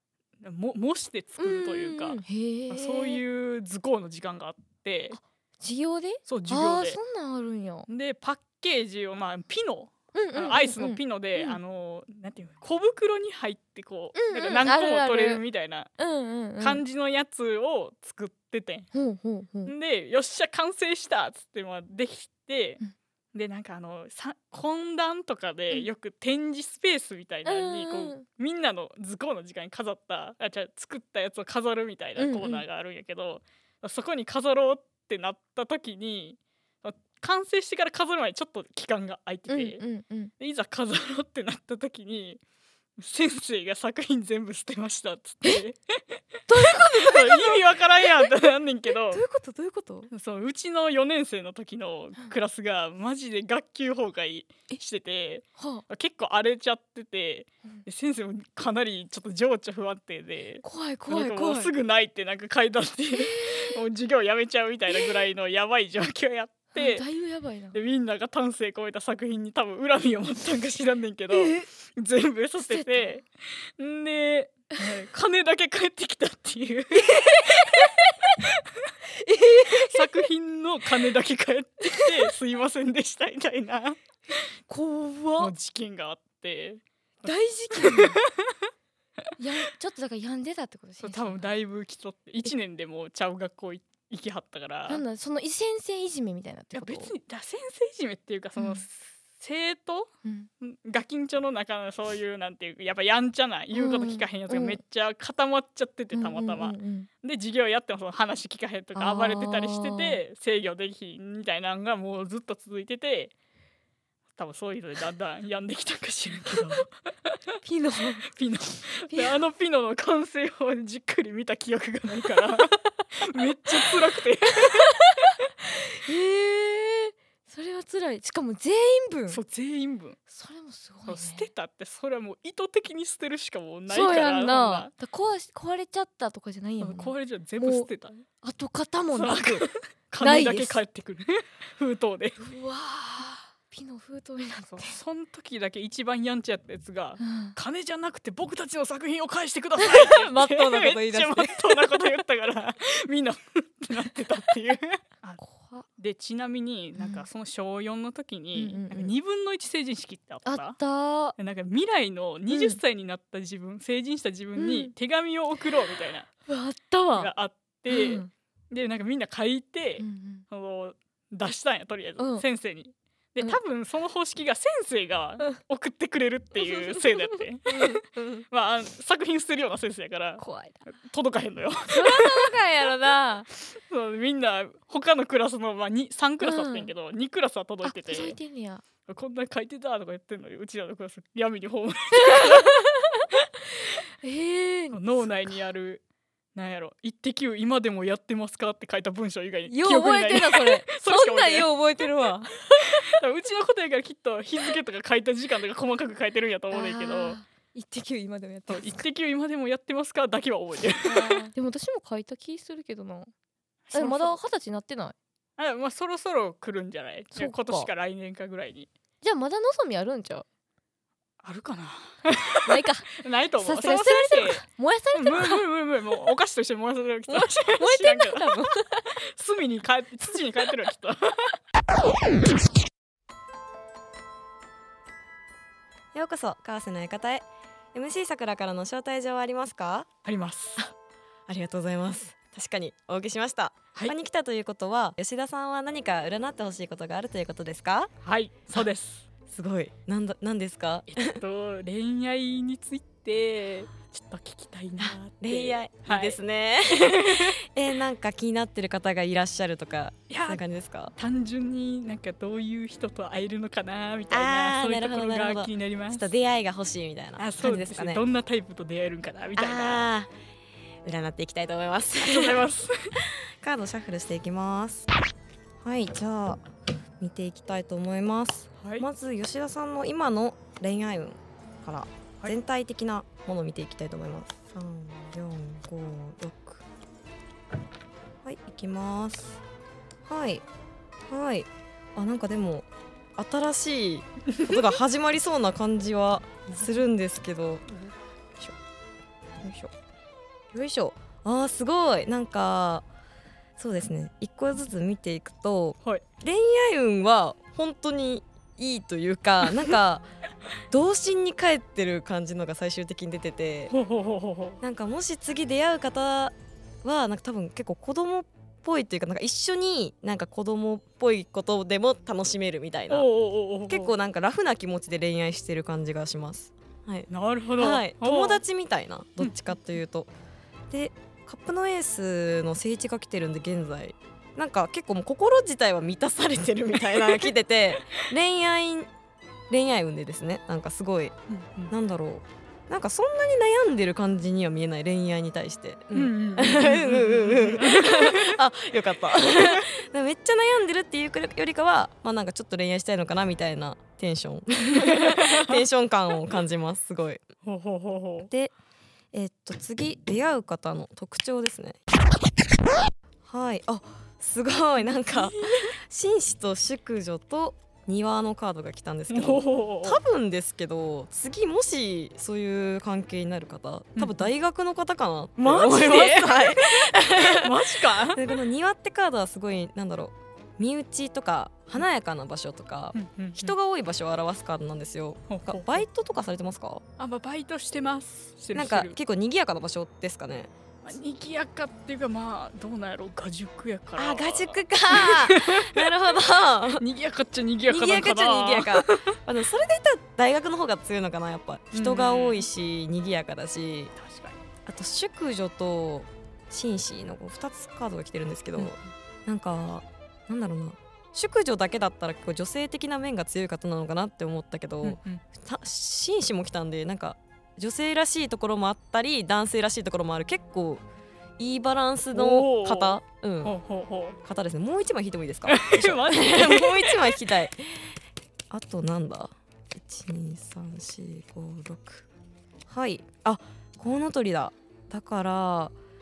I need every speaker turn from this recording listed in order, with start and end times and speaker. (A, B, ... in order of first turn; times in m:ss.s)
0:00.4-0:05.2 A
0:01.4-0:03.2 B
0:05.1-0:07.9 B
0:06.3-0:07.0 A
0:07.9-0:15.9 A
0:10.1-0:11.6 B
0:14.2-0:15.4 B
0:16.0-0:16.8 B
0:16.6-0:18.9 A
0:18.9-0:19.7 B
0:19.6-0:22.8 A
0:23.3-0:39.8 A
0:27.4-0:28.2 B
0:32.2-0:32.6 B
0:39.5-0:40.3 B
0:40.4-0:42.4 A
0:43.0-0:46.0 A
0:46.5-0:48.3 B
0:46.6-0:49.2 A
0:49.1-0:50.1 B
0:50.1-1:07.0 A
0:55.6-0:55.8 B
1:00.6-1:01.7 B
1:03.1-1:03.7 B
1:06.7-1:07.8 B
1:07.7-1:17.6 A
1:11.3-1:11.7 B
1:12.6-1:13.2 B
1:17.0-1:18.1 B
1:19.2-1:20.2 B
1:19.6-1:24.0 A
1:24.7-1:25.5 B
1:25.4-1:28.5 A
1:27.2-1:28.2 B
1:29.4-1:31.5 B
1:31.0-1:35.0 A
1:34.9-1:37.1 B
1:36.7-1:53.3 A
1:38.6-1:38.8 B
1:43.7-1:44.8 B
1:46.1-1:47.1 B
1:48.9-1:50.2 B
1:54.4-1:57.4 A
1:56.4-1:56.8 B
1:57.6-1:58.2 B
1:58.4-2:05.1 A
1:59.1-1:59.3 B
2:04.6-2:09.4 B
2:09.3-2:10.2 A
2:10.3-2:11.5 B
2:11.1-2:14.9 A
2:13.9-2:17.9 B
2:16.8-2:18.2 A
2:18.4-2:19.7 B
2:19.1-2:22.4 A
2:20.2-2:20.8 B
2:22.4-2:24.9 B
2:24.7-2:35.4 A
2:27.2-2:27.6 B
2:29.8-2:32.0 B
2:35.4-2:35.8 B
2:36.0-2:40.8 A
2:37.0-2:37.2 B
2:38.6-2:39.1 B
2:40.4-2:41.4 B
2:41.4-2:46.3 A
2:42.5-2:42.8 B
2:44.6-2:44.9 B
2:46.4-2:47.3 B
2:47.2-2:58.0 A
2:47.9-2:48.3 B
2:50.0-2:50.4 B
2:52.2-2:52.4 B
2:56.6-2:58.4 B
2:58.5-3:02.5 A
3:00.4-3:00.8 B
3:01.9-3:03.5 B
3:03.7-3:08.4 A
3:06.4-3:06.9 B
3:07.8-3:08.8 B
3:09.1-3:12.8 A
3:12.2-3:13.3 B
3:13.8-3:15.6 B
3:14.9-3:16.0 A
3:16.5-3:21.7 A
3:19.7-3:22.6 B
3:23.0-3:27.4 A
3:26.7-3:29.0 B
3:28.7-3:31.4 A
3:31.0-3:33.3 B
3:33.9-3:34.4 A
3:33.9-3:35.1 B
3:35.6-3:38.9 A
3:37.3-3:37.9 B
3:39.2-3:40.4 B
3:41.4-3:48.7 A
3:42.6-3:43.1 B
3:43.6-3:45.6 B
3:47.3-3:49.0 B
3:49.3-3:51.6 A
3:56.1-4:00.1 C
4:00.2-4:00.8 A
4:01.5-4:08.1 C
4:08.2-4:09.2 A
4:09.5-4:11.4 C
4:11.1-4:16.4 A
4:15.3-4:21.1 C
4:17.0-4:17.6 A
4:20.3-4:20.6 A
4:21.2-4:26.3 A
4:24.3-4:28.2 C
4:27.4-4:30.1 A
4:29.6-4:30.3 C
4:31.0-4:32.6 C
4:32.2-4:33.1 A
4:33.6-4:35.1 C
4:35.8-4:36.6 C
4:37.2-4:46.8 C
4:38.8-4:39.0 A
4:48.4-4:49.6 C
4:50.2-4:50.6 C
4:51.3-4:57.9 C
4:56.7-4:56.9 A
4:59.6-4:59.9 C
5:00.7-5:03.0 C
5:03.8-5:10.2 C
5:10.9-5:13.9 C
5:13.9-5:14.8 A
5:14.8-5:23.3 C
5:23.1-5:24.1 A
5:23.9-5:30.3 C
5:27.3-5:28.6 A
5:30.9-5:39.1 C
5:37.1-5:37.4 A
5:39.7-5:41.3 C
5:41.5-5:41.9 A
5:41.9-5:57.4 C
5:46.1-5:48.6 A
5:54.9-5:55.8 A
5:57.6-5:58.5 A
5:59.3-6:02.0 C
6:03.4-6:27.0 C
6:05.3-6:05.9 A
6:09.3-6:10.2 A
6:14.2-6:14.5 A
6:15.6-6:18.5 A
6:23.1-6:23.8 A
6:25.5-6:26.0 A
6:27.2-6:29.2 A
6:28.7-6:30.7 C
6:31.0-6:36.1 A
6:34.2-6:37.0 C
6:37.0-6:39.3 A
6:37.9-6:44.1 C
6:41.9-6:42.6 A
6:44.2-6:44.6 A
6:44.8-7:01.0 C
6:55.0-6:55.4 A
7:01.6-7:03.8 C
7:02.3-7:04.4 A
7:04.4-7:08.0 C
7:05.7-7:07.5 A
7:08.7-7:12.2 C
7:12.9-7:15.9 C